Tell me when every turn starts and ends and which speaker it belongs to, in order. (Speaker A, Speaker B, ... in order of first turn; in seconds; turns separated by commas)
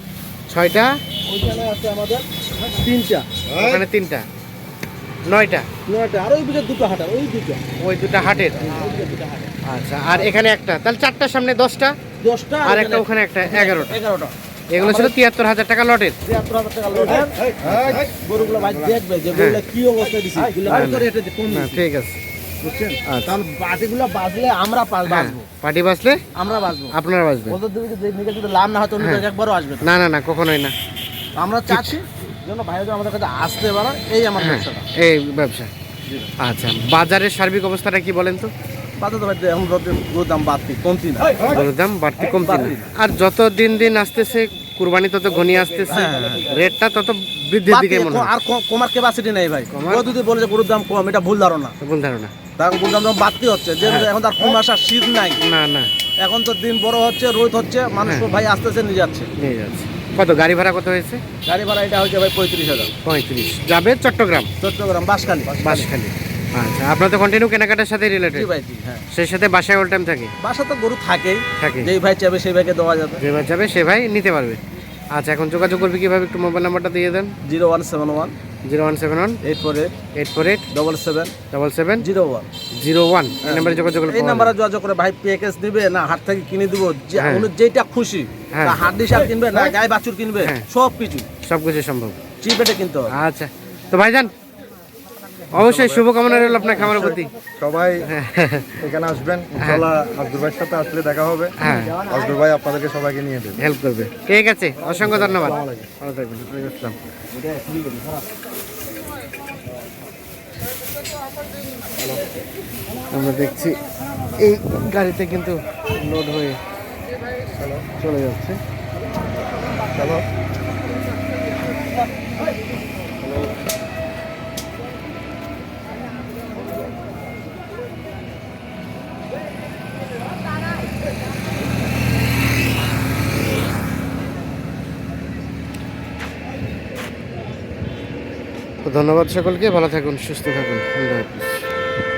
Speaker A: 0.5-1.0, Speaker B: 1.2-3.8, Speaker A: 3.6-4.2, Speaker A: 5.2-5.7, Speaker B: 5.9-7.6, Speaker A: 7.8-8.7, Speaker B: 8.5-9.5, Speaker A: 9.7-12.0, Speaker B: 12.2-15.1, Speaker A: 12.6-14.0, Speaker A: 14.7-16.2, Speaker B: 16.2-21.8, Speaker C: 17.2-18.0, Speaker A: 17.7-18.0, Speaker A: 19.3-19.6, Speaker A: 20.7-22.2, Speaker B: 22.6-25.5, Speaker A: 23.1-23.4, Speaker A: 25.1-26.2, Speaker B: 26.4-26.9, Speaker A: 26.9-27.6, Speaker B: 27.5-29.9, Speaker A: 29.8-30.7, Speaker B: 31.4-34.9, Speaker A: 31.7-32.0, Speaker A: 34.4-35.7, Speaker B: 36.1-36.3, Speaker A: 36.4-38.5, Speaker B: 39.0-41.6, Speaker A: 41.4-48.3, Speaker B: 42.2-42.9, Speaker B: 45.9-46.6, Speaker B: 47.7-51.8, Speaker A: 49.7-50.0, Speaker A: 51.8-52.3, Speaker B: 52.6-55.4, Speaker A: 53.8-54.1, Speaker A: 55.4-55.9, Speaker B: 56.2-59.3, Speaker A: 58.0-58.3, Speaker A: 59.4-61.2, Speaker B: 61.4-62.9, Speaker A: 63.0-64.5, Speaker B: 64.6-65.9, Speaker A: 65.6-68.5, Speaker B: 68.3-69.0, Speaker A: 69.1-70.3, Speaker B: 70.4-73.2, Speaker A: 71.6-71.9, Speaker A: 73.2-74.6, Speaker A: 75.1-77.3, Speaker B: 77.4-78.4, Speaker A: 78.7-79.4, Speaker B: 79.4-79.9, Speaker A: 80.1-80.7, Speaker B: 80.7-81.3, Speaker A: 81.5-82.1, Speaker B: 82.0-82.5, Speaker A: 82.8-84.5, Speaker B: 83.4-91.3, Speaker A: 87.2-87.5, Speaker A: 88.5-88.8, Speaker A: 90.4-90.7, Speaker A: 91.4-92.2, Speaker B: 92.4-93.1, Speaker A: 93.1-94.3, Speaker A: 95.5-97.3, Speaker C: 95.5-96.1, Speaker C: 96.8-98.1, Speaker A: 98.1-98.8, Speaker C: 98.8-103.7, Speaker A: 99.6-99.8, Speaker A: 101.6-102.0, Speaker B: 101.6-102.4, Speaker A: 103.6-107.0, Speaker B: 104.9-105.7, Speaker C: 105.0-105.9, Speaker B: 107.3-108.2, Speaker A: 113.1-113.8, Speaker A: 114.4-116.6, Speaker C: 117.5-117.9, Speaker A: 118.0-118.6, Speaker C: 119.9-120.3, Speaker C: 123.2-123.5, Speaker A: 138.8-141.7